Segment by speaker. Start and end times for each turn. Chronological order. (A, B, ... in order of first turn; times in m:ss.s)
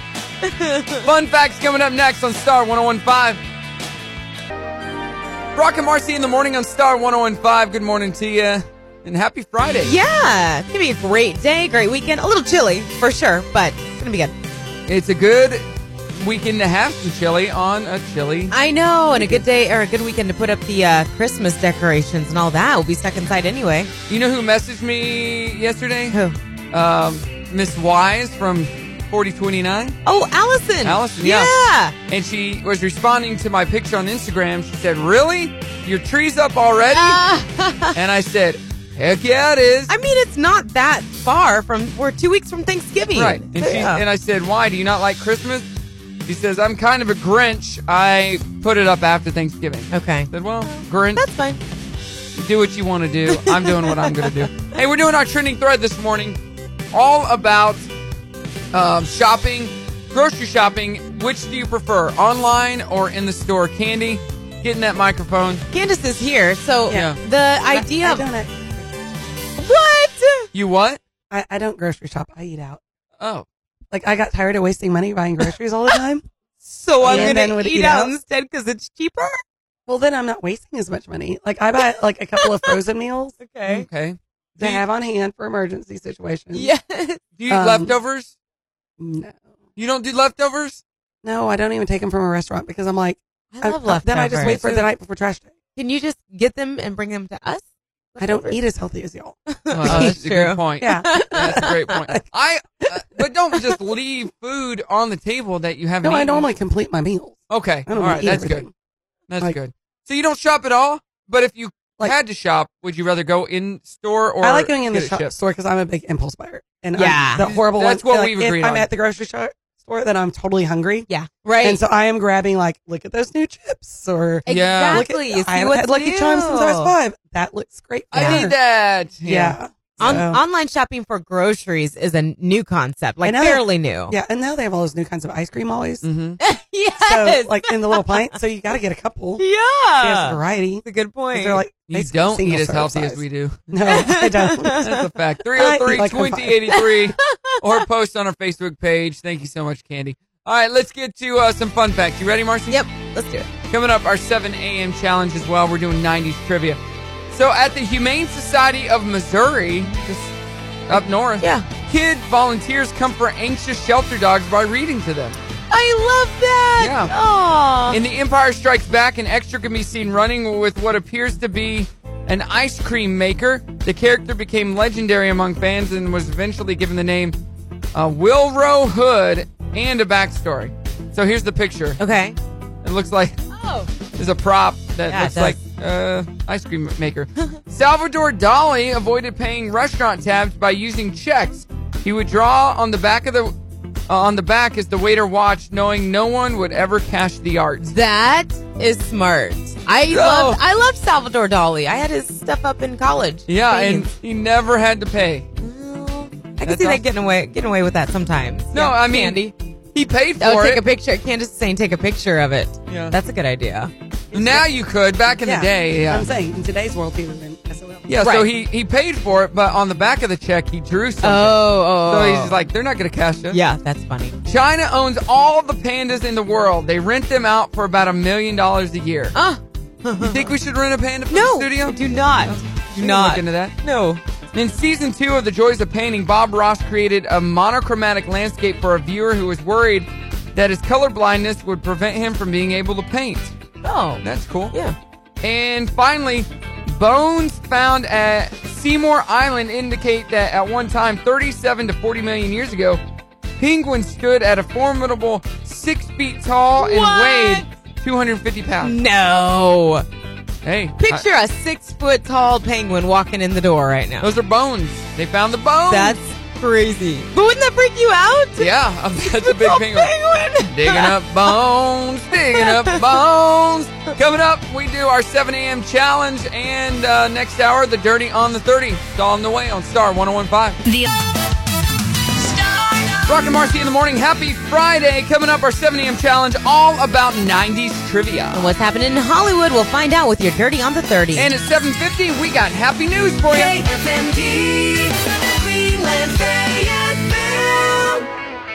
0:00.4-0:01.1 A
0:01.0-0:03.4 B
0:05.5-0:09.9 B
0:09.8-0:14.3 A
0:14.9-0:15.6 B
0:16.1-0:18.5 B
0:18.5-0:23.9 A
0:19.1-0:19.4 B
0:24.1-0:26.2 B
0:26.7-0:30.0 B
0:30.0-0:31.9 A
0:30.8-0:31.5 B
0:32.1-0:37.2 B
0:36.9-0:38.0 A
0:37.9-0:39.9 B
0:39.9-0:44.0 A
0:43.1-0:45.7 B
0:46.2-0:51.2 B
0:49.9-0:51.6 A
0:52.3-0:56.4 B
0:53.3-0:54.3 A
0:56.9-0:57.9 B
0:58.7-1:05.6 B
1:05.7-1:08.2 A
1:06.9-1:07.2 B
1:07.7-1:08.9 C
1:09.6-1:10.5 A
1:10.5-1:11.0 B
1:11.3-1:12.8 C
1:13.2-1:13.4 B
1:13.9-1:16.2 C
1:16.7-1:19.4 A
1:16.9-1:17.4 B
1:17.0-1:18.1 C
1:19.9-1:23.4 C
1:22.4-1:22.7 A
1:23.4-1:23.9 A
1:23.7-1:24.8 B
1:24.6-1:26.7 C
1:26.5-1:27.2 A
1:27.4-1:28.3 B
1:27.5-1:27.9 C
1:29.0-1:29.4 C
1:29.8-1:30.8 B
1:31.2-1:35.5 C
1:33.5-1:34.6 A
1:34.3-1:34.8 B
1:35.8-1:37.6 A
1:38.1-1:38.6 A
1:38.2-1:40.2 C
1:39.5-1:41.9 A
1:39.7-1:46.5 B
1:40.8-1:42.2 C
1:46.0-1:48.7 C
1:47.5-1:48.7 B
1:49.3-1:55.4 B
1:54.4-2:01.1 C
1:57.0-1:57.5 A
1:57.4-1:58.9 B
2:01.1-2:01.8 A
2:01.6-2:08.6 C
2:04.4-2:06.9 A
2:04.5-2:05.1 B
2:08.1-2:10.2 B
2:08.2-2:08.5 A
2:09.2-2:10.4 C
2:10.0-2:14.1 A
2:13.2-2:16.0 C
2:16.0-2:16.4 B
2:16.4-2:18.3 A
2:17.0-2:19.4 C
2:19.4-2:21.6 A
2:20.0-2:25.0 C
2:21.9-2:23.7 B
2:23.9-2:25.0 A
2:24.6-2:32.8 B
2:25.5-2:26.8 C
2:26.7-2:27.8 A
2:32.7-2:33.5 A
2:33.7-2:36.8 B
2:37.3-2:40.3 B
2:40.9-2:45.4 B
2:41.4-2:41.7 A
2:45.7-2:48.0 A
2:46.8-2:47.1 B
2:47.9-2:57.4 B
2:57.9-3:02.0 B
3:02.0-3:02.4 A
3:02.8-3:03.4 B
3:03.5-3:03.9 A
3:04.2-3:13.5 B
3:05.1-3:05.6 A
3:14.1-3:17.9 B
3:17.8-3:24.1 A
3:20.1-3:20.6 B
3:23.5-3:25.5 B
3:25.6-3:29.5 A
3:26.6-3:27.0 B
3:28.7-3:29.4 B
3:29.9-3:30.8 B
3:30.4-3:33.9 A
3:32.9-3:33.1 B
3:34.3-3:34.6 C
3:34.3-3:36.3 B
3:35.4-3:38.0 C
3:38.1-3:43.6 B
3:38.2-3:38.5 A
3:41.2-3:42.6 A
3:43.5-3:44.3 A
3:44.4-3:49.3 B
3:49.3-3:50.5 A
3:50.2-3:53.7 B
3:51.3-3:54.2 A
3:54.5-4:03.5 B
4:03.8-4:05.0 A
4:04.2-4:04.7 B
4:05.4-4:13.0 B
4:13.6-4:19.0 B
4:16.8-4:17.7 A
4:18.8-4:20.0 A
4:20.6-4:21.2 B
4:21.0-4:24.3 A
4:24.2-4:26.2 B
4:25.9-4:31.1 A
4:28.6-4:30.1 B
4:30.6-4:40.8 B
4:32.5-4:33.0 A
4:43.2-4:48.7 B
4:48.5-4:51.5 A
4:51.3-4:53.8 B
4:53.5-4:58.2 A